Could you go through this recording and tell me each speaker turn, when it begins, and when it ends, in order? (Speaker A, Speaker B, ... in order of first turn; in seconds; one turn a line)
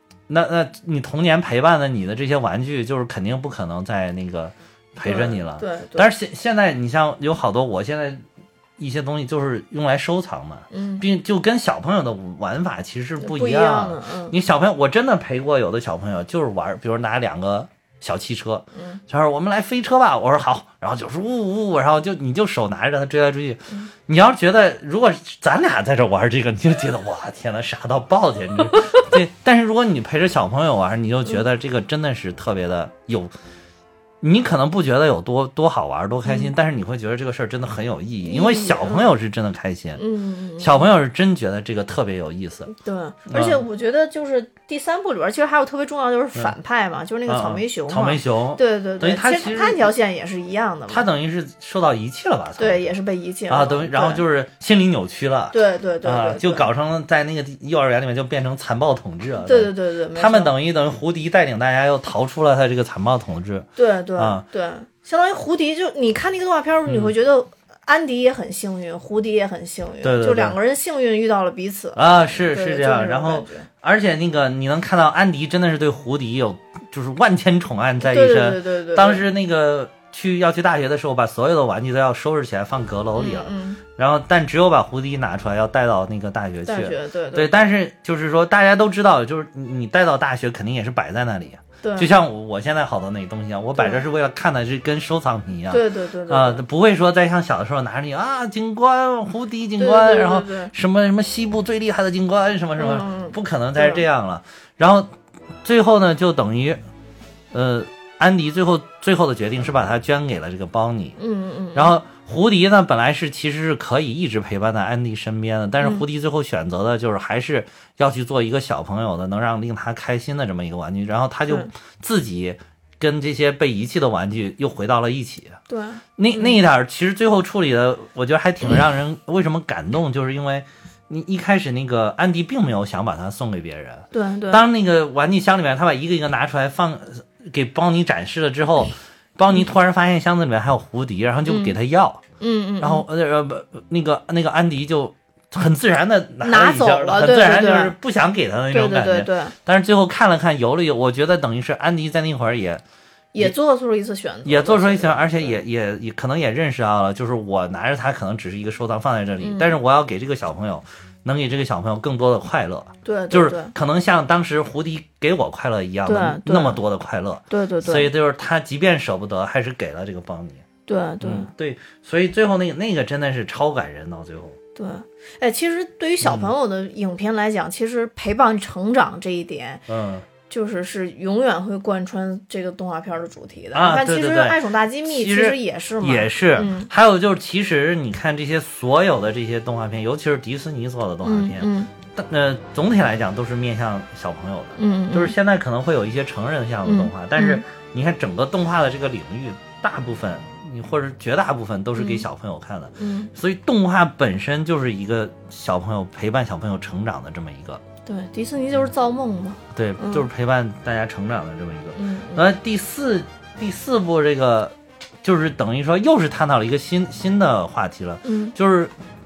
Speaker A: 0.3-8.2
Speaker B: 5.0-6.1
Speaker A: 8.8-33.3
Speaker B: 10.7-11.0
Speaker B: 13.2-14.3
Speaker B: 18.8-19.0
Speaker A: 34.2-40.0
Speaker B: 36.2-36.5
Speaker B: 38.2-39.1
Speaker B: 40.0-40.9
Speaker A: 40.6-42.7
Speaker B: 42.7-51.1
Speaker A: 43.3-43.6
Speaker A: 47.3-49.9
Speaker A: 50.9-52.9
Speaker B: 52.6-54.2
Speaker A: 53.5-64.5
Speaker B: 55.5-56.7
Speaker B: 59.4-60.5
Speaker B: 63.8-73.7
Speaker A: 66.9-67.1
Speaker A: 70.0-70.6
Speaker A: 72.0-105.1
Speaker B: 78.0-79.2
Speaker B: 83.2-83.8
Speaker B: 86.7-87.7
Speaker B: 91.8-92.1
Speaker B: 93.8-94.0
Speaker B: 95.7-96.6
Speaker B: 99.8-100.7
Speaker B: 102.8-104.0
Speaker A: 105.6-106.8
Speaker A: 107.5-111.2
Speaker B: 111.2-111.9
Speaker A: 111.8-125.6
Speaker B: 125.7-126.6
Speaker A: 126.2-142.2
Speaker B: 134.1-134.6
Speaker B: 141.5-141.8
Speaker B: 142.4-143.1
Speaker A: 142.8-152.8
Speaker B: 146.4-147.9
Speaker B: 148.7-149.6
Speaker B: 153.3-155.6
Speaker A: 154.4-170.7
Speaker B: 159.4-159.8
Speaker B: 163.1-163.7
Speaker B: 166.1-166.8
Speaker B: 167.5-168.1
Speaker B: 170.9-171.5
Speaker A: 171.2-174.6
Speaker B: 174.8-179.8
Speaker A: 176.2-176.5
Speaker A: 179.9-180.3
Speaker B: 180.5-186.9
Speaker A: 183.7-207.8
Speaker B: 191.2-191.9
Speaker B: 194.8-195.3
Speaker B: 196.8-197.6
Speaker B: 202.0-202.2
Speaker B: 203.0-203.3
Speaker B: 208.1-210.3
Speaker A: 209.7-218.9
Speaker B: 211.9-212.5
Speaker B: 218.2-218.6